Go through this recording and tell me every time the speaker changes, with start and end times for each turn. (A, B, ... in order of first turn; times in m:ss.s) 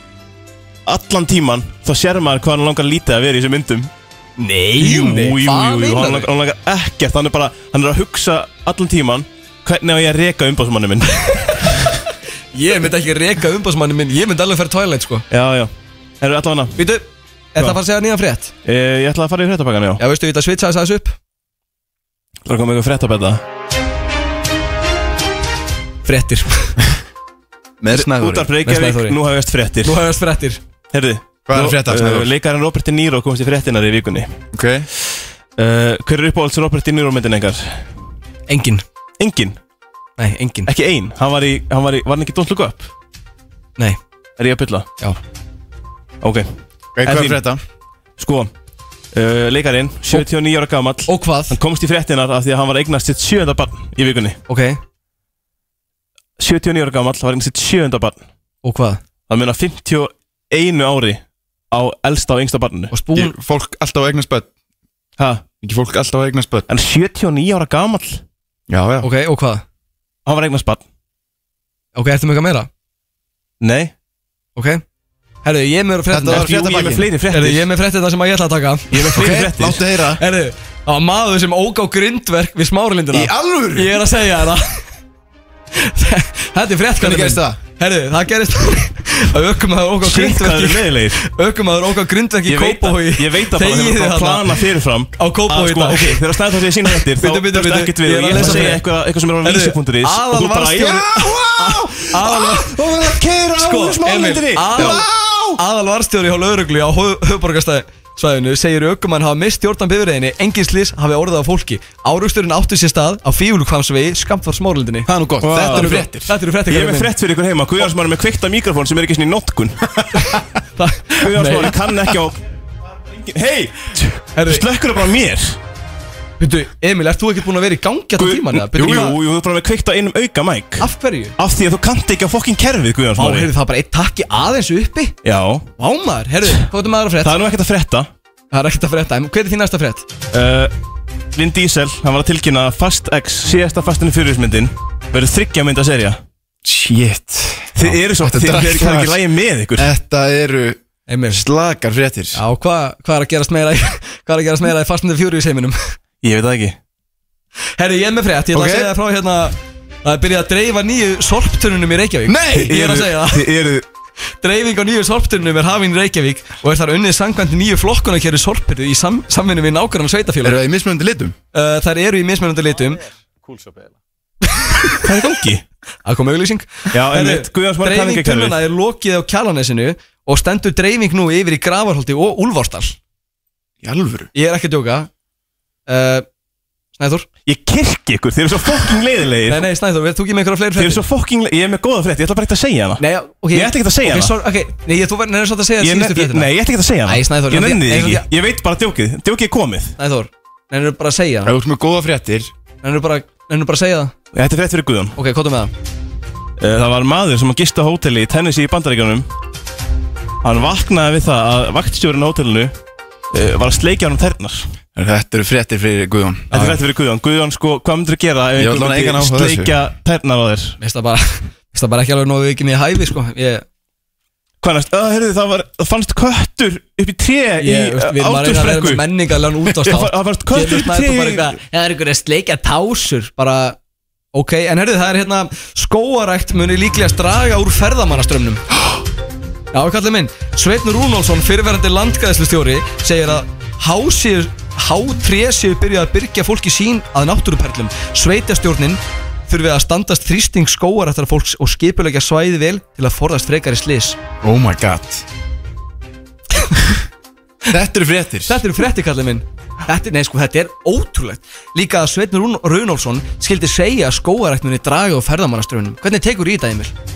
0:00.8-0:03.9 A
0:04.4-0:06.3 B
0:04.8-0:11.2 A
0:12.5-0:15.2 B
0:15.3-0:16.8 A
0:16.8-0:18.5 B
0:18.6-0:20.0 A
0:20.0-0:21.1 B
0:22.4-0:23.4 A
0:26.0-0:26.8 B
0:27.8-0:28.5 C
0:27.9-0:30.0 A
0:28.6-0:29.2 B
0:29.8-0:30.6 B
0:30.9-0:34.3 A
0:31.5-0:32.3 C
0:34.5-0:34.9 C
0:35.6-0:37.8 A
0:38.5-0:38.8 B
0:39.2-0:39.6 A
0:40.2-0:40.7 B
0:40.7-0:42.9 A
0:44.4-0:44.9 A
0:46.2-0:46.5 A
0:47.0-0:47.6 C
0:48.2-0:48.5 A
0:49.1-0:54.4 A
0:51.0-0:51.6 B
0:54.5-0:54.8 B
0:56.4-0:58.2 A
0:58.6-0:59.0 B
0:59.3-1:02.9 A
1:02.9-1:03.3 B
1:03.1-1:04.5 C
1:05.2-1:05.4 A
1:05.6-1:06.7 C
1:06.7-1:08.2 A
1:08.7-1:09.1 C
1:09.0-1:09.6 B
1:10.2-1:10.8 A
1:11.9-1:12.7 B
1:13.6-1:13.9 A
1:14.6-1:14.8 B
1:15.4-1:19.1 B
1:16.1-1:17.1 C
1:16.2-1:17.6 A
1:18.9-1:19.8 A
1:19.1-1:20.2 C
1:20.2-1:24.8 B
1:23.1-1:24.0 C
1:25.8-1:34.6 B
1:27.0-1:27.6 C
1:30.0-1:31.2 A
1:32.4-1:45.6 A
1:35.2-1:36.2 B
1:36.8-1:38.8 B
1:39.4-1:45.0 B
1:44.8-1:45.2 C
1:45.6-1:57.1 B
1:55.0-1:56.3 C
1:55.4-1:56.1 A
1:56.7-2:00.1 A
2:00.1-2:01.8 B
2:01.2-2:02.4 A
2:03.1-2:05.6 A
2:04.3-2:04.6 B
2:06.4-2:09.2 B
2:08.2-2:13.5 A
2:10.8-2:11.3 B
2:13.2-2:15.2 B
2:15.2-2:15.7 A
2:15.8-2:17.3 B
2:17.2-2:18.1 A
2:18.5-2:20.0 B
2:20.3-2:20.7 A
2:21.3-2:26.2 A
2:26.6-2:29.2 C
2:27.8-2:29.9 A
2:29.8-2:32.4 C
2:31.1-2:31.4 B
2:32.3-2:35.8 B
2:36.2-2:36.8 A
2:37.8-2:43.5 B
2:38.5-2:38.9 C
2:42.2-2:42.8 C
2:42.6-2:43.8 A
2:44.4-2:50.6 B
2:50.4-2:51.4 C
2:51.5-2:53.0 B
2:53.4-2:53.9 C
2:54.6-2:55.0 B
2:55.0-2:55.6 A
2:56.0-3:03.0 B
2:56.9-2:58.6 A
3:03.8-3:04.3 C
3:04.3-3:05.1 B
3:05.9-3:06.2 B
3:07.0-3:07.3 B
3:07.4-3:09.7 A
3:09.5-3:11.0 B
3:10.8-3:14.4 A
3:13.0-3:16.5 B
3:15.8-3:19.9 A
3:17.0-3:18.2 B
3:20.0-3:21.5 B
3:21.4-3:22.5 C
3:22.8-3:24.1 B
3:24.3-3:25.1 A
3:25.2-3:25.7 B
3:26.6-3:29.3 A
3:30.4-3:32.7 A
3:33.3-3:34.7 A
3:35.0-3:36.8 C
3:36.5-3:40.8 A
3:38.6-3:39.7 C
3:40.8-3:43.6 B
3:44.6-3:49.0 A
3:47.6-3:53.8 B
3:49.7-3:51.6 A
3:54.3-3:58.6 B
3:59.7-4:14.2 B
4:14.4-4:15.2 C
4:17.7-4:18.6 C
4:18.5-4:26.9 B